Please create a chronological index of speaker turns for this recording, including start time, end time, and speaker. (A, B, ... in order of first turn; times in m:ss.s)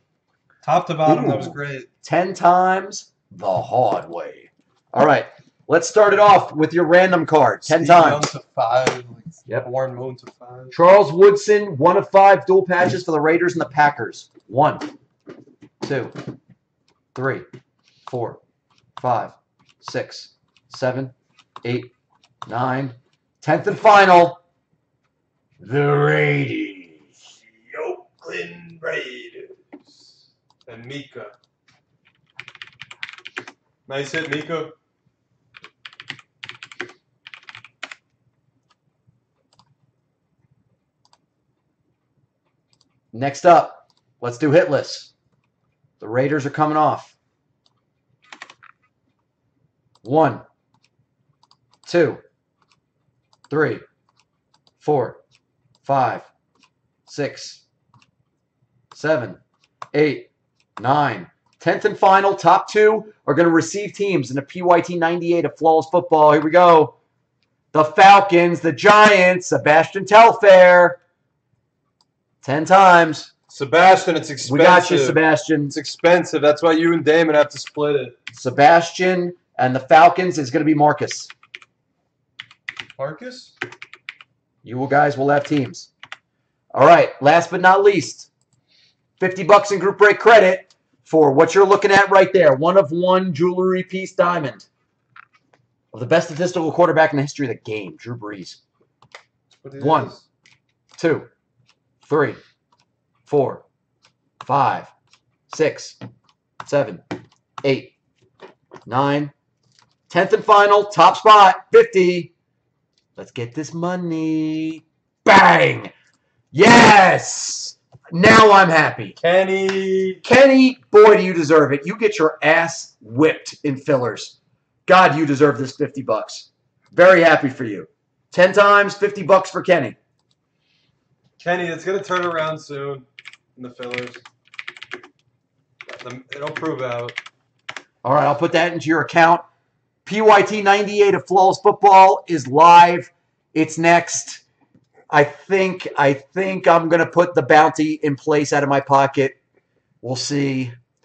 0:00.6-0:01.9 A
0:01.0-0:08.3 B
0:07.6-0:10.8 A
0:10.7-0:14.9 B
0:15.8-0:16.2 B
0:17.2-0:17.5 B
0:18.0-0:18.4 B
0:19.0-0:21.9 B
0:22.5-0:24.4 B
0:25.6-0:27.1 B
0:27.5-0:30.0 A
0:30.7-0:31.3 A
0:33.9-0:34.7 A
0:43.1-0:45.1 B
0:46.0-0:47.1 B
0:50.0-0:50.4 B
0:51.9-0:52.2 B
0:53.5-0:53.8 B
0:54.8-0:55.2 B
0:55.8-0:56.3 B
0:57.1-0:57.6 B
0:58.9-0:59.4 B
0:59.9-1:07.0 B
1:07.7-1:11.0 B
1:12.4-1:13.3 B
1:13.5-1:18.1 A
1:14.4-1:15.8 B
1:18.3-1:21.3 B
1:23.0-1:23.5 A
1:24.6-1:25.9 B
1:26.7-1:28.3 B
1:29.2-1:34.7 B
1:35.9-1:38.6 B
1:39.5-1:40.2 A
1:39.8-1:40.2 B
1:41.0-1:41.3 B
1:42.0-1:42.4 B
1:43.3-1:43.6 B
1:44.4-1:44.9 B
1:45.5-1:46.0 B
1:46.6-1:47.0 B
1:47.6-1:47.9 B
1:48.9-1:49.3 B
1:50.1-1:52.3 B
1:53.2-1:55.9 B
1:56.5-1:59.2 B
1:59.2-2:00.2 A
2:00.2-2:10.0 B
2:11.4-2:14.2 A
2:16.0-2:17.2 A
2:18.0-2:19.4 B
2:20.0-2:24.4 B
2:25.1-2:29.4 B
2:30.0-2:30.7 B